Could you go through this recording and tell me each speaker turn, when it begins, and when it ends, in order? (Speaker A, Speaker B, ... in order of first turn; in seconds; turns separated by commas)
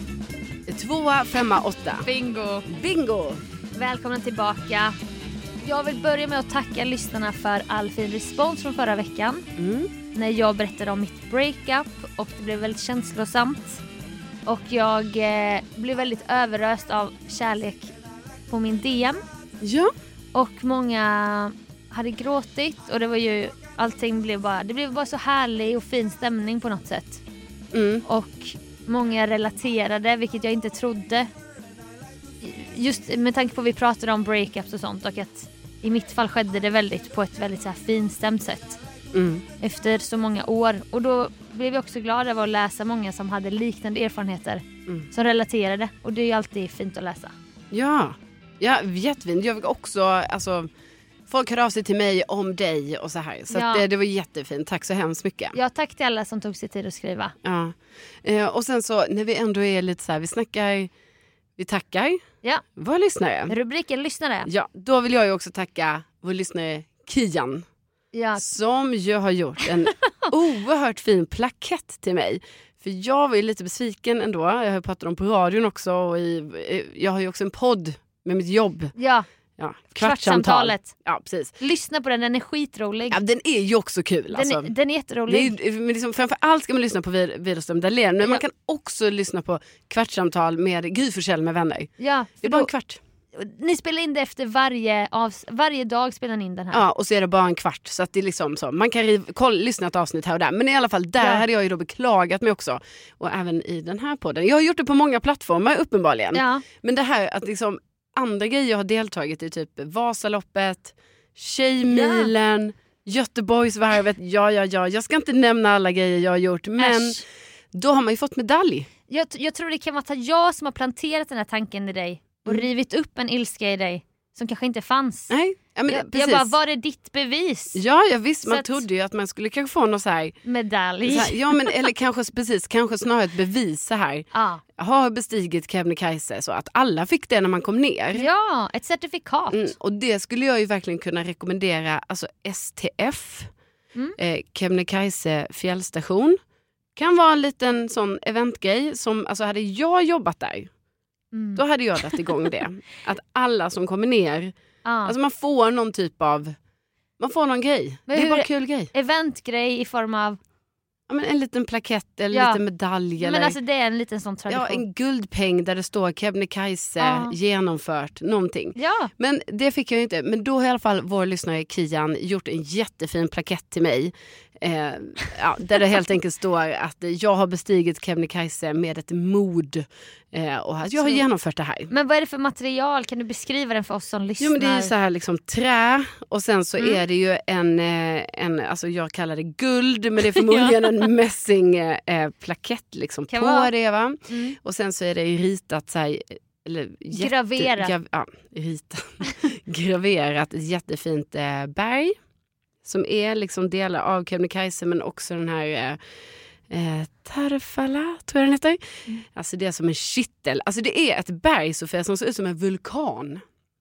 Speaker A: 0.7-2.1, Speaker B: 2.0-2.7, Speaker A: 2.7-3.4, Speaker B: 3.8-5.0, Speaker B: 5.6-9.5, Speaker A: 9.6-9.9, Speaker B: 10.1-13.8, Speaker B: 14.5-17.9, Speaker B: 18.5-19.2, Speaker A: 19.6-19.9, Speaker B: 20.4-27.2, Speaker A: 27.7-28.1, Speaker B: 28.1-31.3, Speaker B: 32.4-38.8, Speaker A: 39.1-39.5, Speaker B: 39.6-47.3, Speaker A: 47.7-50.7, Speaker A: 51.3-55.6, Speaker B: 53.5-53.9, Speaker B: 55.5-57.4, Speaker A: 57.4-60.9, Speaker A: 61.6-62.2, Speaker A: 62.8-63.5, Speaker B: 63.5-64.5, Speaker A: 64.5-67.7, Speaker B: 68.1-68.5, Speaker A: 68.4-78.9, Speaker B: 70.0-70.3, Speaker B: 79.0-79.3, Speaker A: 79.6-81.6, Speaker B: 80.0-80.9, Speaker B: 81.6-83.2, Speaker A: 83.1-84.7, Speaker B: 84.3-85.5, Speaker A: 85.3-91.9, Speaker B: 92.0-92.7, Speaker A: 92.4-93.0, Speaker B: 93.3-96.8, Speaker A: 96.7-118.9, Speaker B: 106.3-106.7, Speaker B: 111.9-112.3, Speaker B: 116.8-117.2, Speaker B: 119.1-125.3, Speaker A: 125.3-126.5, Speaker B: 125.9-127.8, Speaker A: 127.8-130.4, Speaker B: 128.4-128.8, Speaker B: 130.4-131.9, Speaker A: 131.1-138.3, Speaker B: 134.3-134.6, Speaker B: 138.1-139.7, Speaker A: 139.5-143.5, Speaker A: 144.2-146.4, Speaker A: 147.0-150.7, Speaker B: 151.3-152.5, Speaker A: 151.6-154.5, Speaker B: 154.8-155.2, Speaker A: 155.1-156.6, Speaker A: 157.2-158.9, Speaker B: 158.1-160.4, Speaker A: 161.1-163.6, Speaker B: 162.3-162.6, Speaker B: 163.2-164.8, Speaker A: 164.5-181.9, Speaker B: 167.0-167.3, Speaker B: 168.8-169.1, Speaker B: 180.9-181.2, Speaker B: 181.9-184.9, Speaker A: 184.4-202.2, Speaker B: 190.2-191.1, Speaker B: 193.3-193.7, Speaker B: 194.3-194.6, Speaker B: 197.1-197.9, Speaker A: 202.8-206.0, Speaker A: 206.7-213.4